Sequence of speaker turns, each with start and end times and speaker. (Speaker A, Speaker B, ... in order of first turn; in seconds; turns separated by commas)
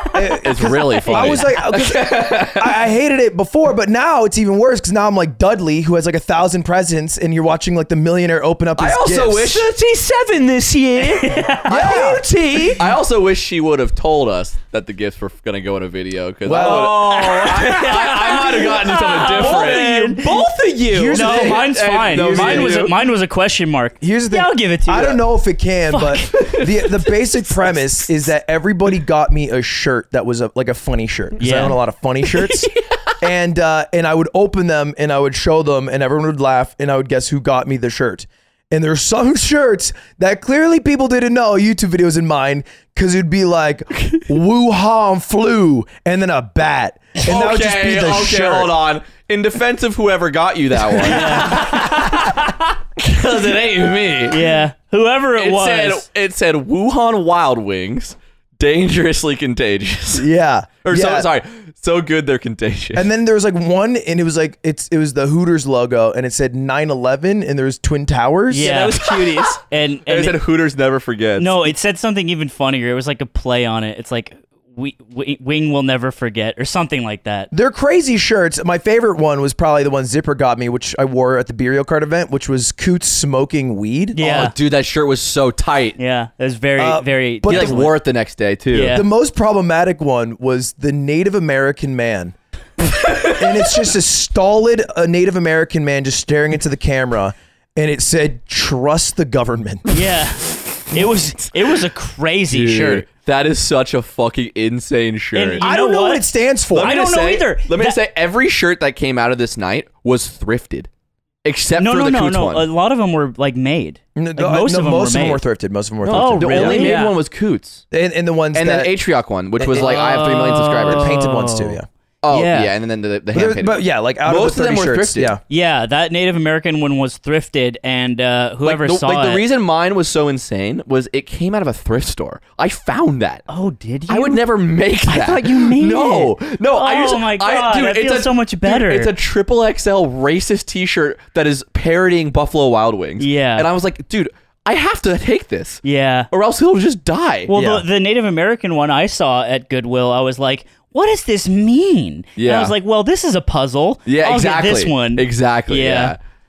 Speaker A: 0.1-9.7, Speaker B: 0.3-2.7, Speaker C: 1.1-1.4, Speaker B: 8.8-9.7, Speaker D: 9.6-12.9, Speaker C: 11.0-11.7, Speaker A: 11.7-12.2, Speaker B: 12.8-19.9, Speaker A: 16.4-17.2, Speaker D: 16.5-21.4, Speaker C: 17.4-20.4, Speaker A: 20.9-22.8, Speaker C: 21.1-25.2, Speaker B: 21.1-23.0, Speaker A: 24.0-48.7, Speaker C: 25.9-27.0, Speaker C: 31.4-31.8, Speaker B: 47.2-54.5, Speaker C: 51.0-51.9, Speaker C: 54.3-56.1, Speaker B: 55.4-60.3, Speaker A: 60.1-61.3, Speaker B: 60.8-63.1, Speaker A: 62.9-68.7, Speaker C: 68.5-69.0, Speaker D: 68.6-69.6, Speaker B: 68.7-71.7, Speaker C: 69.6-70.4, Speaker C: 71.4-77.5, Speaker A: 77.5-84.2, Speaker C: 84.1-84.5, Speaker B: 84.2-86.0, Speaker C: 86.0-88.0, Speaker A: 86.8-87.8, Speaker B: 87.5-89.0, Speaker C: 88.7-89.1, Speaker A: 88.9-92.3, Speaker B: 93.0-93.7, Speaker A: 93.2-99.8, Speaker C: 99.9-103.1, Speaker B: 102.5-105.7, Speaker C: 105.3-106.3, Speaker A: 105.6-107.0, Speaker B: 106.7-110.9, Speaker C: 106.8-108.0, Speaker B: 111.4-112.7, Speaker C: 111.8-115.4, Speaker A: 114.2-117.0, Speaker B: 116.0-117.8, Speaker C: 116.1-117.0, Speaker D: 116.8-117.2, Speaker A: 117.9-118.9, Speaker B: 118.5-121.1, Speaker A: 119.6-121.8, Speaker C: 119.7-122.7, Speaker B: 122.2-125.4, Speaker A: 123.3-125.4, Speaker C: 125.5-129.4, Speaker B: 128.6-133.5, Speaker C: 133.5-134.4, Speaker B: 134.1-147.9, Speaker C: 135.1-139.1, Speaker C: 143.2-143.7, Speaker C: 145.8-146.3, Speaker C: 147.5-156.2, Speaker B: 152.4-152.7, Speaker B: 154.1-156.2